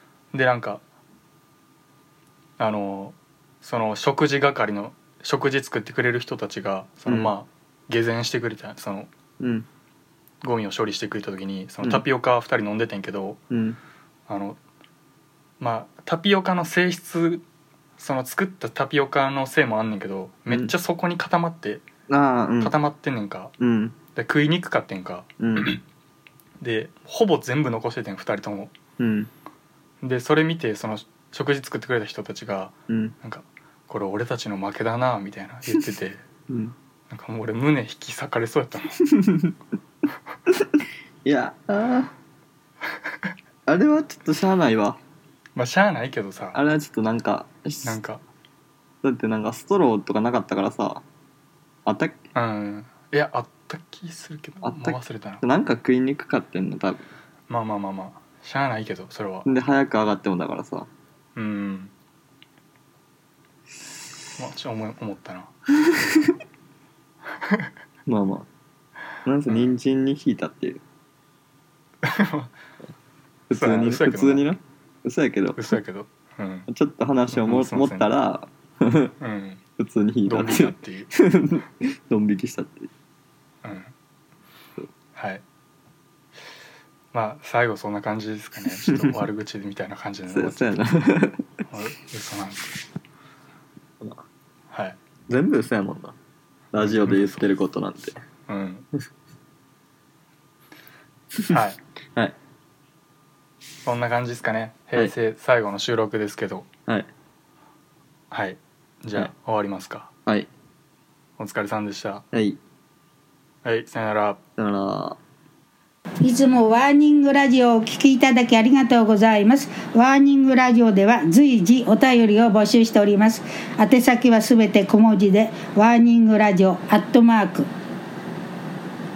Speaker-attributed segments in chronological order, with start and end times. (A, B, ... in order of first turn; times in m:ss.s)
0:00.3-0:00.8 A
0:02.6-0:09.1 A
0:07.1-0:07.3 B
0:09.4-0:09.7 B
0:10.4-0:13.4 A
0:13.5-0:13.8 B
0:14.3-0:14.6 A
0:15.6-0:17.4 A
0:18.0-0:21.8 A
0:22.1-0:22.8 B
0:22.6-0:23.5 A
0:23.6-0:24.0 B
0:24.1-0:25.8 A
0:25.4-0:25.7 B
0:26.6-0:28.7 A
0:29.0-0:29.3 B
0:30.0-0:36.2 A
0:32.9-0:33.2 B
0:36.5-0:36.8 B
0:37.1-0:39.0 A
0:39.0-0:39.5 B
0:41.2-0:42.1 B
0:43.7-0:45.0 B
0:45.6-0:46.6 A
0:46.5-0:48.0 B
0:47.8-0:48.2 A
0:49.0-0:51.0 B
0:51.9-0:52.2 B
0:52.4-0:55.4 A
0:54.6-0:57.1 B
0:57.5-0:59.5 A
0:59.4-1:00.9 B
1:01.4-1:01.9 A
1:04.4-1:06.3 A
1:08.1-1:08.5 B
1:09.2-1:10.8 B
1:09.5-1:09.7 A
1:12.0-1:12.6 A
1:13.5-1:15.6 B
1:13.5-1:14.5 A
1:15.6-1:16.7 A
1:16.7-1:19.2 B
1:17.3-1:18.1 A
1:19.2-1:19.6 A
1:19.8-1:22.9 B
1:20.3-1:21.1 A
1:23.6-1:23.9 A
1:25.2-1:25.4 A
1:27.1-1:30.8 A
1:28.8-1:29.2 B
1:30.3-1:31.4 B
1:31.7-1:32.8 A
1:34.7-1:35.0 A
1:35.3-1:36.2 B
1:36.7-1:38.2 B
1:36.8-1:37.5 A
1:38.5-1:38.9 A
1:41.5-1:41.8 A
1:43.8-1:46.7 A
1:48.3-1:50.1 A
1:51.4-1:52.2 A
1:52.3-1:52.6 B
1:53.6-1:54.4 A
1:54.6-1:55.2 B
1:56.2-2:07.7 C